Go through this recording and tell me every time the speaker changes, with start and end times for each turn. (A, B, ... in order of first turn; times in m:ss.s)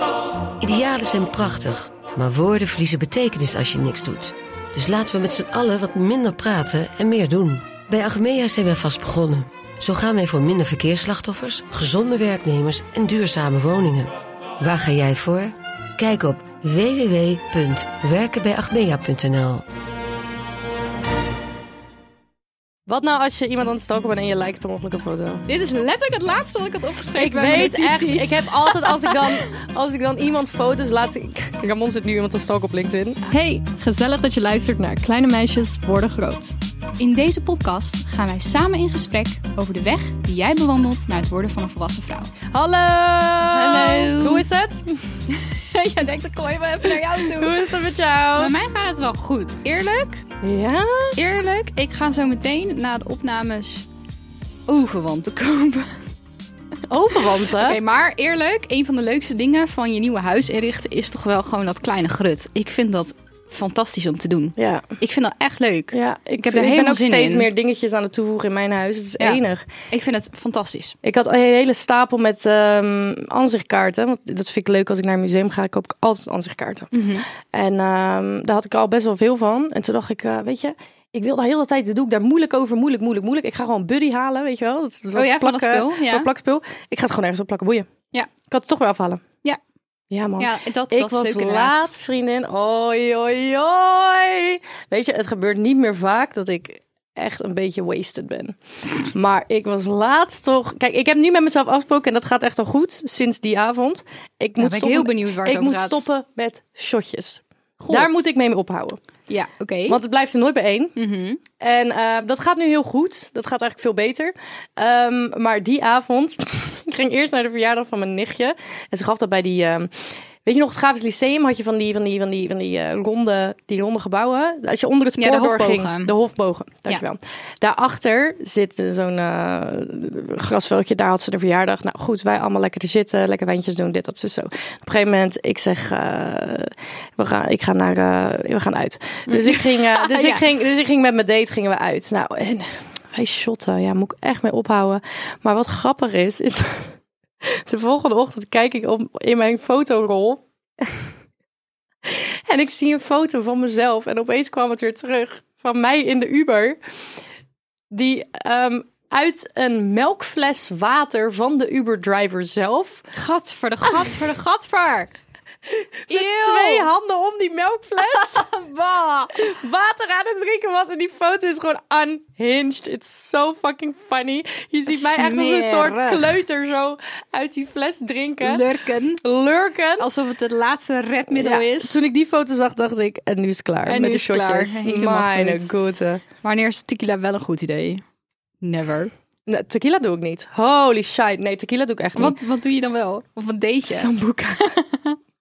0:00.6-0:19.6 A
0:22.9-0:25.5 B
0:25.5-0:29.2 C
0:27.2-0:36.6 B
0:37.0-0:42.3 C
0:42.5-0:45.1 B
0:43.5-0:44.4 C
0:45.3-0:47.7 C
0:46.8-0:48.5 B
0:48.4-0:50.2 C
0:50.4-0:51.2 B
0:51.2-0:53.9 C
0:54.7-0:55.9 C
0:56.9-0:57.8 B
0:57.4-1:07.5 C
1:04.6-1:04.9 B
1:05.9-1:09.7 B
1:09.9-1:11.0 C
1:11.0-1:16.9 B
1:16.9-1:17.3 C
1:17.5-1:27.9 B
1:25.2-1:26.3 C
1:28.5-1:29.2 B
1:30.1-1:49.0 B
1:30.4-1:31.9 C
1:44.6-1:46.0 C
1:47.8-1:48.1 C
1:49.3-1:50.0 C
1:49.9-1:50.9 B
1:51.0-1:51.4 C
1:51.6-2:31.1 B
2:05.2-2:06.2 C
2:19.3-2:20.4 C
2:32.0-2:36.8 B
2:37.9-2:43.1 B
2:43.2-2:45.1 C
2:45.7-2:48.5 B
2:46.1-2:46.9 C
2:48.0-2:49.3 C
2:49.3-2:58.6 B
2:54.9-2:56.4 C
2:58.4-2:59.2 C
2:59.2-3:00.1 B
3:00.0-3:02.0 C
3:01.3-3:06.2 B
3:03.9-3:05.7 C
3:06.4-3:08.0 C
3:08.6-3:09.1 C
3:09.5-3:12.4 B
3:12.2-3:15.2 C
3:13.8-3:14.7 B